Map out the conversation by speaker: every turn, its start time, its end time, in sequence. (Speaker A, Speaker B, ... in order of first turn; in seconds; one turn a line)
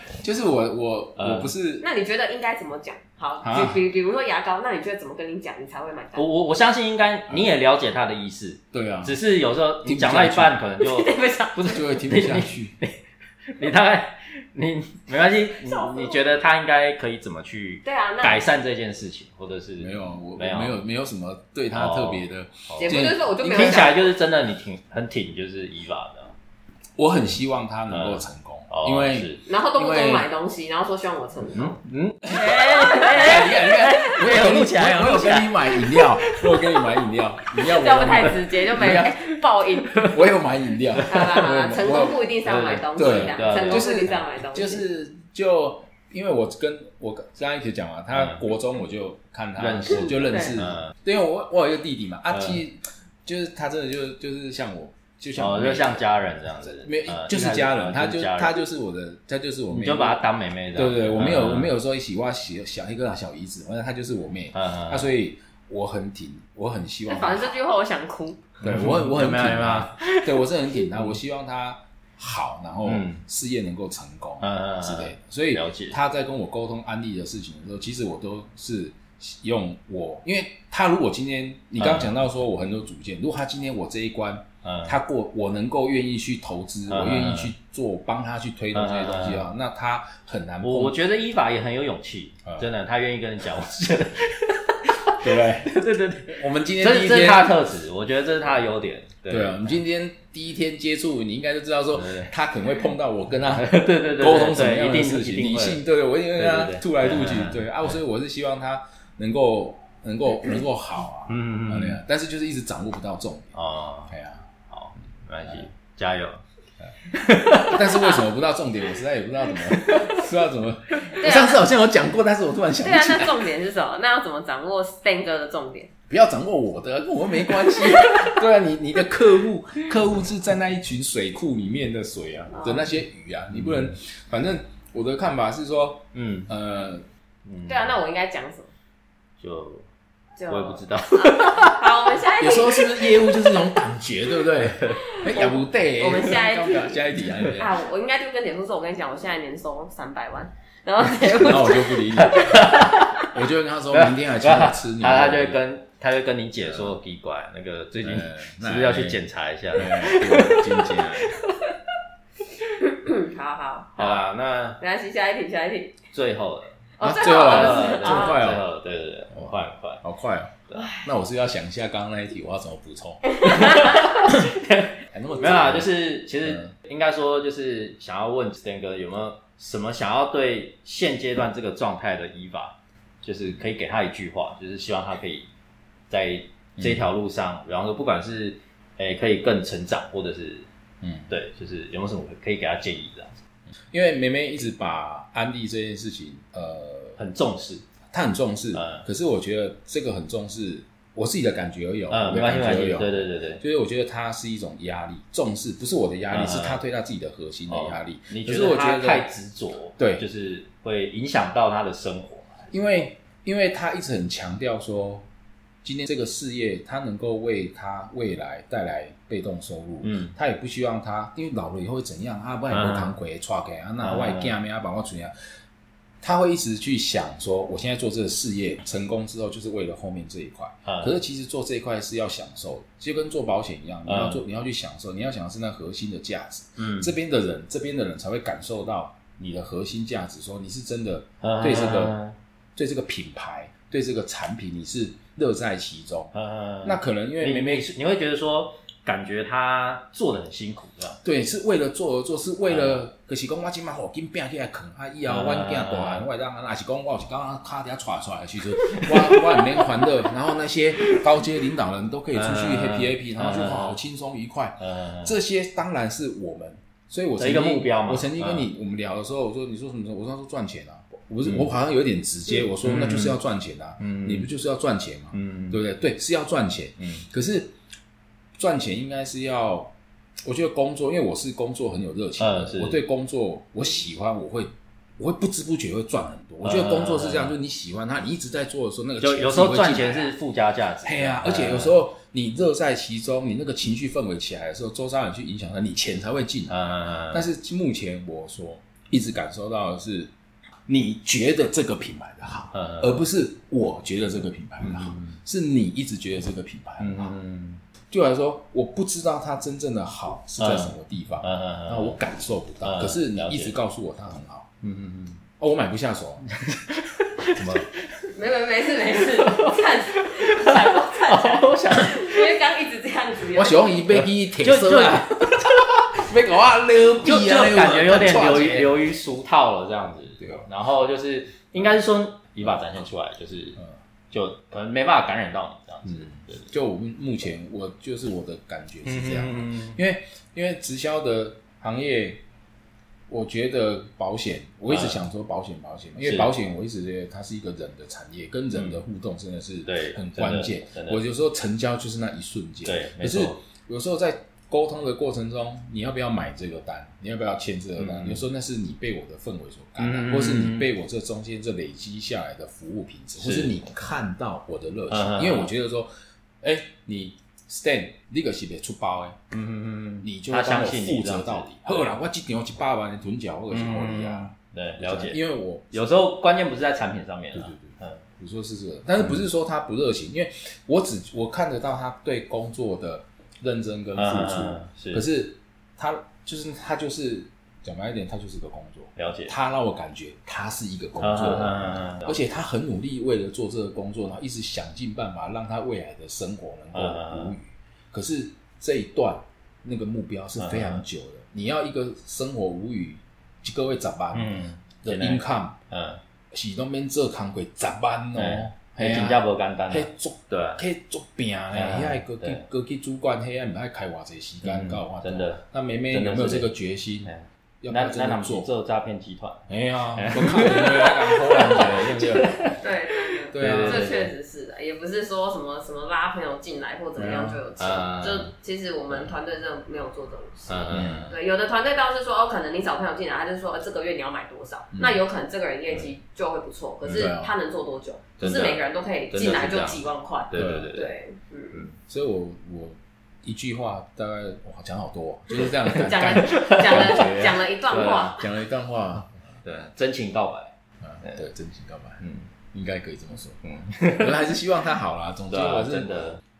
Speaker A: 0.2-1.9
Speaker B: 1.2-1.5
Speaker C: 1.8-6.2
Speaker A: 3.4-3.8
Speaker B: 6.1-11.1
Speaker A: 8.7-9.2
Speaker A: 9.8-10.6
Speaker C: 10.8-11.9
Speaker A: 11.6-12.8
Speaker B: 11.8-13.0
Speaker B: 13.5-20.8
Speaker C: 15.5-16.2
Speaker C: 17.8-18.4
Speaker A: 19.8-23.9
Speaker B: 21.7-26.3
Speaker C: 22.8-24.1
Speaker A: 27.0-30.3
Speaker B: 27.9-29.4
Speaker C: 29.5-31.8
Speaker B: 31.5-36.6
Speaker A: 32.3-39.1
Speaker C: 32.3-33.9
Speaker C: 37.6-40.1
Speaker B: 38.8-39.1
Speaker A: 40.0-42.2
Speaker C: 41.0-44.9
Speaker B: 42.4-44.1
Speaker A: 42.9-56.1
Speaker B: 48.1-48.4
Speaker B: 49.6-50.9
Speaker C: 50.2-50.6
Speaker B: 52.3-52.6
Speaker B: 55.4-58.6
Speaker A: 56.6-60.2
Speaker B: 59.7-61.7
Speaker A: 60.8-67.5
Speaker B: 64.5-65.1
Speaker C: 67.1-68.4
Speaker B: 68.6-70.3
Speaker A: 68.6-91.0
Speaker B: 72.8-73.2
Speaker B: 74.4-76.0
Speaker B: 81.8-82.1
Speaker B: 84.6-84.9
Speaker B: 86.9-87.5
Speaker B: 88.7-89.5
Speaker B: 90.6-99.8
Speaker A: 95.2-97.6
Speaker A: 99.3-113.5
Speaker B: 101.9-102.3
Speaker B: 103.5-105.8
Speaker B: 106.4-107.7
Speaker B: 111.3-112.0
Speaker B: 113.5-114.1
Speaker A: 114.1-114.5
Speaker B: 114.7-116.4
Speaker B: 117.1-117.9
Speaker A: 117.5-123.5
Speaker B: 119.8-120.2
Speaker C: 121.2-121.6
Speaker C: 122.8-125.9
Speaker A: 126.1-137.1
Speaker C: 132.5-132.9
Speaker B: 133.5-133.9
Speaker B: 136.1-136.5
Speaker B: 137.5-137.9
Speaker C: 137.7-138.7
Speaker B: 139.4-139.9
Speaker C: 140.4-143.3
Speaker B: 140.5-141.8
Speaker A: 142.4-147.8
Speaker B: 144.6-145.0
Speaker C: 145.0-152.7
Speaker A: 151.1-155.6
Speaker B: 152.2-153.3
Speaker B: 153.9-161.4
Speaker A: 156.6-157.0
Speaker A: 158.0-159.2
Speaker A: 159.7-161.4
Speaker C: 162.8-164.2
Speaker B: 164.0-164.8
Speaker C: 164.8-166.0
Speaker B: 166.1-170.0
Speaker C: 167.0-168.4
Speaker A: 167.0-168.7
Speaker A: 169.3-174.4
Speaker B: 170.7-171.0
Speaker C: 170.8-171.0
Speaker C: 173.4-174.2
Speaker B: 173.4-185.5
Speaker A: 175.1-176.7
Speaker B: 186.1-190.7
Speaker A: 186.8-187.1
Speaker A: 191.0-191.3
Speaker B: 191.3-193.4
Speaker A: 193.9-197.2
Speaker B: 197.2-197.8
Speaker A: 198.1-209.3
Speaker B: 198.7-199.1
Speaker B: 202.1-203.6
Speaker B: 206.3-206.8
Speaker B: 207.7-212.7
Speaker A: 210.0-210.2
Speaker A: 212.7-215.2
Speaker A: 215.8-225.3
Speaker B: 220.0-220.3
Speaker B: 222.7-223.1
Speaker B: 224.0-224.5
Speaker A: 226.2-242.2
Speaker B: 230.8-231.1
Speaker B: 234.1-234.4
Speaker B: 236.8-237.1
Speaker B: 241.4-242.3
Speaker A: 242.8-247.9
Speaker B: 246.3-251.2
Speaker A: 251.2-277.8
Speaker B: 252.7-253.0
Speaker B: 255.3-256.3
Speaker B: 258.9-259.9
Speaker B: 262.3-264.0
Speaker B: 264.8-265.3
Speaker B: 267.4-268.7
Speaker B: 271.4-271.7
Speaker B: 272.8-273.4
Speaker B: 274.0-274.5
Speaker B: 275.3-275.8
Speaker B: 277.0-277.2
Speaker A: 278.6-290.3
Speaker B: 282.4-283.0
Speaker B: 286.6-287.5
Speaker B: 289.2-292.0
Speaker A: 291.0-300.3
Speaker B: 296.7-297.5
Speaker A: 300.9-307.3
Speaker B: 302.7-303.2
Speaker B: 304.8-305.4
Speaker B: 307.0-307.8
Speaker A: 308.1-314.7
Speaker B: 310.6-312.2
Speaker B: 312.8-313.8
Speaker B: 314.8-315.4
Speaker A: 315.6-316.5
Speaker B: 316.7-318.0
Speaker A: 317.6-317.8
Speaker C: 318.3-324.0
Speaker B: 319.1-322.6
Speaker A: 323.5-329.0
Speaker B: 324.1-325.9
Speaker B: 327.2-336.7
Speaker A: 330.4-330.7
Speaker A: 336.0-342.4
Speaker B: 339.0-340.0
Speaker A: 343.3-366.1
Speaker B: 344.9-345.2
Speaker B: 346.2-346.5
Speaker B: 348.7-349.0
Speaker B: 349.9-351.2
Speaker B: 352.8-353.6
Speaker B: 358.0-358.4
Speaker B: 360.0-360.9
Speaker B: 363.4-363.7
Speaker B: 365.1-365.7
Speaker A: 366.6-369.4
Speaker B: 369.5-372.1
Speaker A: 370.2-375.9
Speaker B: 373.7-375.4
Speaker B: 375.9-378.2
Speaker A: 377.5-405.8
Speaker B: 384.2-385.2
Speaker B: 389.2-389.5
Speaker B: 391.2-392.4
Speaker B: 396.9-397.5
Speaker B: 400.6-401.0
Speaker B: 404.3-406.2
Speaker A: 406.5-418.7
Speaker B: 408.4-410.8
Speaker B: 411.7-412.6
Speaker B: 414.6-416.7
Speaker B: 417.2-419.6
Speaker A: 419.7-422.8
Speaker B: 420.1-422.8
Speaker C: 422.8-441.8
Speaker A: 423.5-424.2
Speaker B: 423.5-424.3
Speaker A: 427.2-427.6
Speaker B: 427.8-428.5
Speaker B: 430.7-431.3
Speaker A: 430.9-431.3
Speaker A: 434.9-435.2
Speaker B: 437.1-437.3
Speaker A: 437.1-437.5
Speaker B: 438.4-441.1
Speaker A: 440.6-440.9
Speaker A: 442.0-447.6
Speaker B: 445.6-448.5
Speaker C: 445.9-448.4
Speaker A: 448.2-449.3
Speaker B: 449.6-451.4
Speaker A: 451.0-453.6
Speaker B: 452.2-452.5
Speaker B: 453.6-454.4
Speaker A: 454.1-456.2
Speaker B: 455.5-456.4